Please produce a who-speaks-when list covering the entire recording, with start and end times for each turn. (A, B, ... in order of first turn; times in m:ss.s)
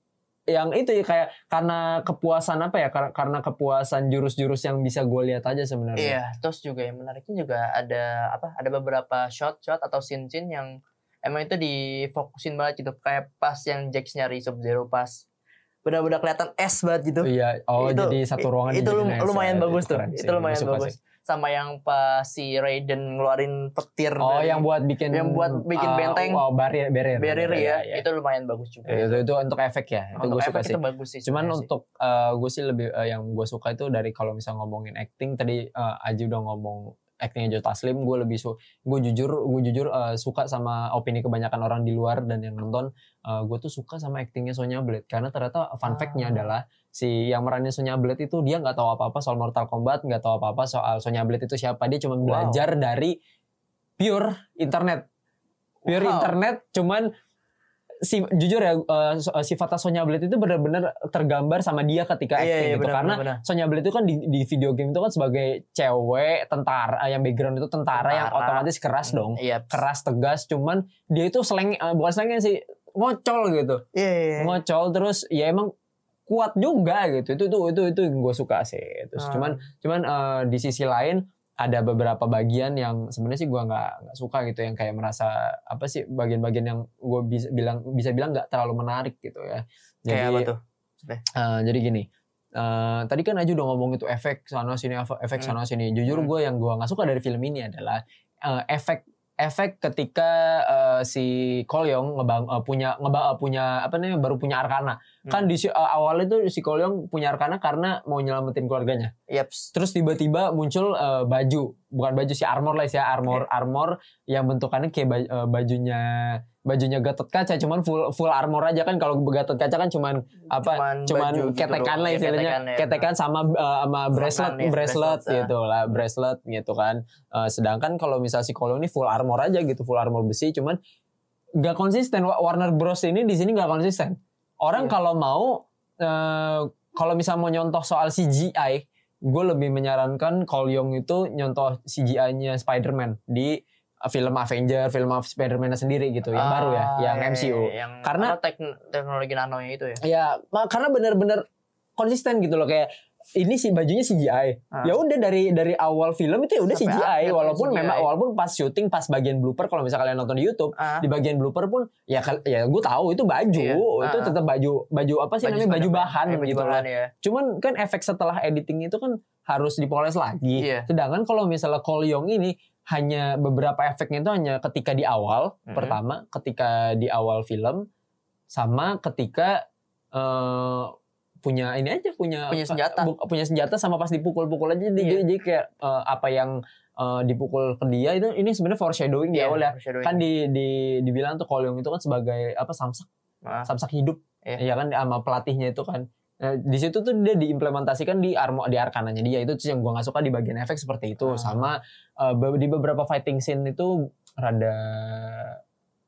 0:00.5-0:06.2 A
0:06.0-0:15.2 B
0:15.8-0:26.4 B
0:17.2-0:21.0 A
0:24.2-0:28.0 A
0:27.2-0:29.2 B
0:28.9-0:53.2 A
0:30.2-0:31.7 B
0:45.8-0:46.5 B
0:52.2-0:52.6 B
0:54.0-0:55.1 A
0:55.8-0:56.3 B
0:55.9-0:57.1 A
0:58.0-1:13.8 A
1:02.4-1:03.4 B
1:07.9-1:09.8 B
1:13.9-1:14.6 B
1:14.4-1:15.7 A
1:16.3-1:30.5 A
1:19.2-1:19.6 B
1:30.1-1:31.2 B
1:31.3-1:49.1 A
1:49.3-1:49.7 B
1:49.7-2:10.8 A
2:00.6-2:03.0 B
2:04.1-2:05.5 B
2:11.6-2:28.4 A
2:26.4-2:30.0 B
2:30.0-2:31.4 A
2:32.0-2:57.9 A
2:34.7-2:35.0 B
2:36.7-2:38.1 B
2:40.8-2:41.0 B
2:43.5-2:44.4 B
2:45.4-2:47.1 B
2:50.6-2:50.9 B
2:55.7-2:56.0 B
2:58.5-3:13.1 A
3:02.5-3:03.1 B
3:05.0-3:05.2 B
3:09.3-3:10.2 B
3:13.4-3:13.7 B
3:13.7-3:25.6 A
3:21.2-3:21.6 B